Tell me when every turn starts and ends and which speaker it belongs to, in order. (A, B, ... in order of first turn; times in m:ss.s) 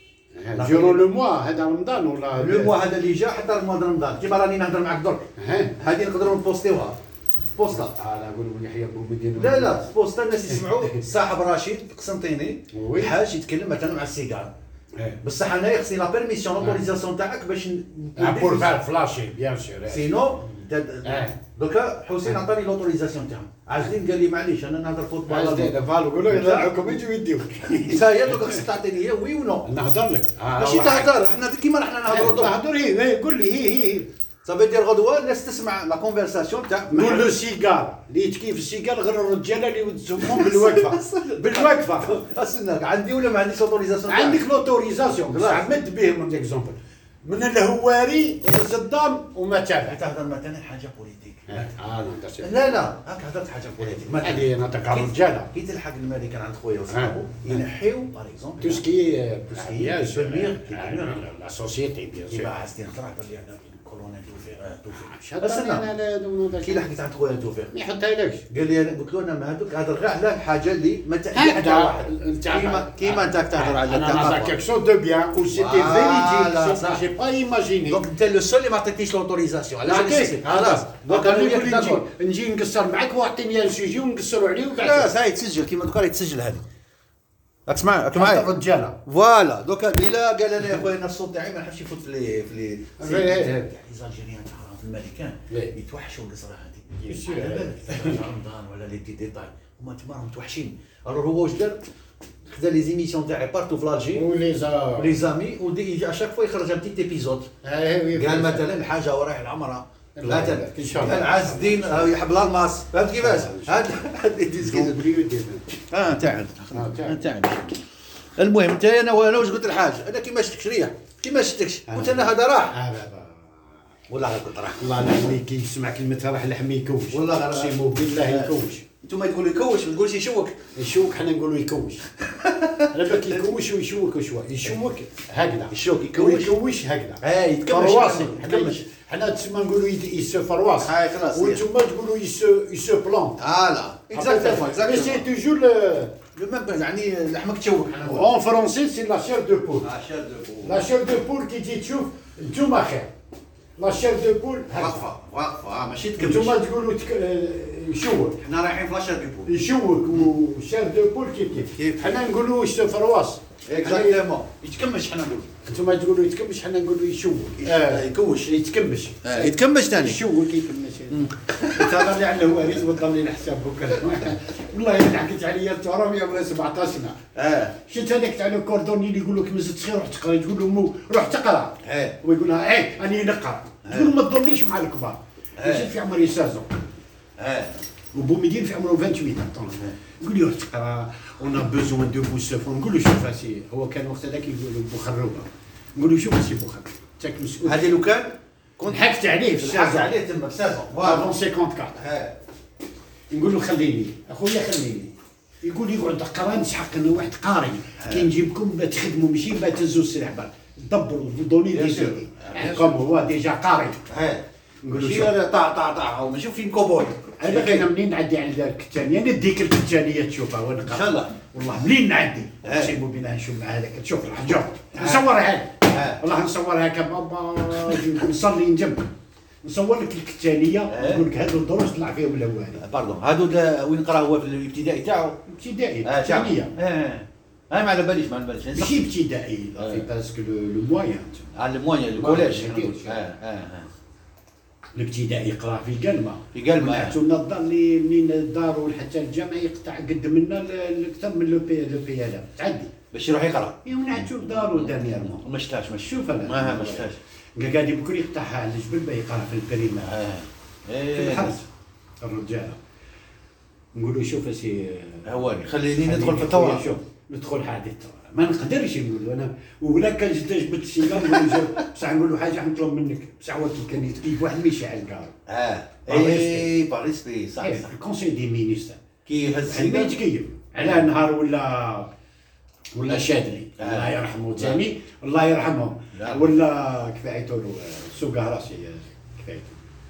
0:00.4-0:02.8 A
0:00.5-0:01.1 B
0:02.4-0:08.0 B
0:05.4-0:05.8 A
0:07.7-0:09.9 A
0:09.4-0:14.5 B
0:10.5-0:11.0 A
0:12.7-0:13.1 A
0:15.2-0:18.7 B
0:18.2-0:20.3 A
0:19.9-0:27.0 B
0:21.0-0:21.4 A
0:25.3-0:28.6 A
0:27.8-0:29.7 B
0:29.6-0:31.2 A
0:30.5-0:32.6 B
0:32.0-0:34.1 A
0:34.4-0:37.3 B
0:36.9-0:42.2 A
0:40.2-0:44.4 B
0:44.1-0:50.0 A
0:45.1-0:45.7 B
0:49.8-0:51.7 B
0:51.5-0:52.8 A
0:52.4-0:58.9 B
0:53.8-0:55.5 A
0:56.9-0:57.6 A
0:58.6-1:02.5 A
0:59.5-1:01.2 B
1:02.3-1:05.9 B
1:04.9-1:06.9 A
1:06.6-1:07.7 B
1:07.7-1:08.4 A
1:08.5-1:14.6 B
1:11.3-1:18.0 A
1:15.5-1:17.0 B
1:17.8-1:22.0 B
1:19.8-1:25.1 A
1:24.7-1:26.6 B
1:27.7-1:28.5 B
1:28.1-1:29.0 A
1:29.0-1:41.8 B
1:33.0-1:33.7 A
1:37.0-1:38.2 A
1:42.4-1:44.3 B
1:44.1-1:45.2 A
1:44.9-1:47.5 B
1:47.6-1:48.7 A
1:48.1-1:55.0 B
1:50.2-1:52.1 A
1:53.2-1:53.9 A
1:54.6-1:55.7 A
1:55.9-1:57.8 B
1:56.7-1:57.2 A
1:58.4-2:02.8 B
2:01.9-2:03.4 A
2:04.1-2:05.0 B
2:04.8-2:08.9 A
2:07.1-2:10.7 B
2:10.8-2:12.1 A
2:12.2-2:13.4 B
2:12.9-2:23.4 A
2:15.7-2:16.6 B
2:17.2-2:18.8 B
2:20.8-2:21.6 B
2:23.4-2:25.3 B
2:24.1-2:26.2 A
2:26.3-2:28.3 B
2:28.0-2:29.9 A
2:29.8-2:30.9 B
2:30.6-2:33.1 A
2:33.8-2:35.0 A
2:34.7-2:36.6 B
2:36.2-2:38.4 A
2:38.4-2:39.6 B
2:39.5-2:44.2 A
2:41.7-2:42.2 B
2:43.7-2:45.5 B
2:45.6-2:57.2 A
2:47.6-2:48.5 B
2:49.2-2:50.2 B
2:51.1-2:52.2 B
2:57.4-2:57.8 B
2:57.9-3:06.8 A
3:01.8-3:02.2 B
3:03.8-3:04.1 B
3:05.6-3:05.9 B
3:07.4-3:07.8 B
3:08.1-3:18.0 A
3:17.6-3:21.4 B
3:18.8-3:20.1 A
3:21.0-3:22.0 A
3:22.0-3:22.4 B
3:23.3-3:34.0 A
3:28.0-3:28.3 B
3:31.7-3:33.0 B
3:34.1-3:37.9 B
3:34.8-3:35.4 A
3:37.4-3:49.1 A
3:40.8-3:41.4 B
3:42.6-3:43.0 B
3:45.0-3:45.3 B
3:45.8-3:46.2 B
3:49.6-3:52.8 A
3:50.9-3:51.3 B
3:52.8-3:55.4 B
3:55.5-3:56.8 A
3:56.0-3:59.1 B
3:58.8-4:01.5 A
3:59.8-4:00.0 B
4:01.6-4:03.9 B
4:02.2-4:03.2 A
4:05.0-4:12.9 A
4:06.5-4:07.2 B
4:13.1-4:17.2 B
4:13.8-4:15.5 A
4:16.0-4:20.2 A
4:20.0-4:21.6 B
4:21.1-4:21.7 A
4:22.2-4:22.8 A
4:23.9-4:35.4 A
4:25.2-4:26.9 B
4:31.2-4:31.7 B
4:35.5-4:37.9 B
4:36.1-4:36.7 A
4:37.6-4:39.0 A
4:39.2-4:40.2 B
4:39.6-4:42.1 A
4:40.8-4:41.1 B
4:42.9-4:49.8 A
4:43.8-4:44.8 B
4:46.1-4:46.6 B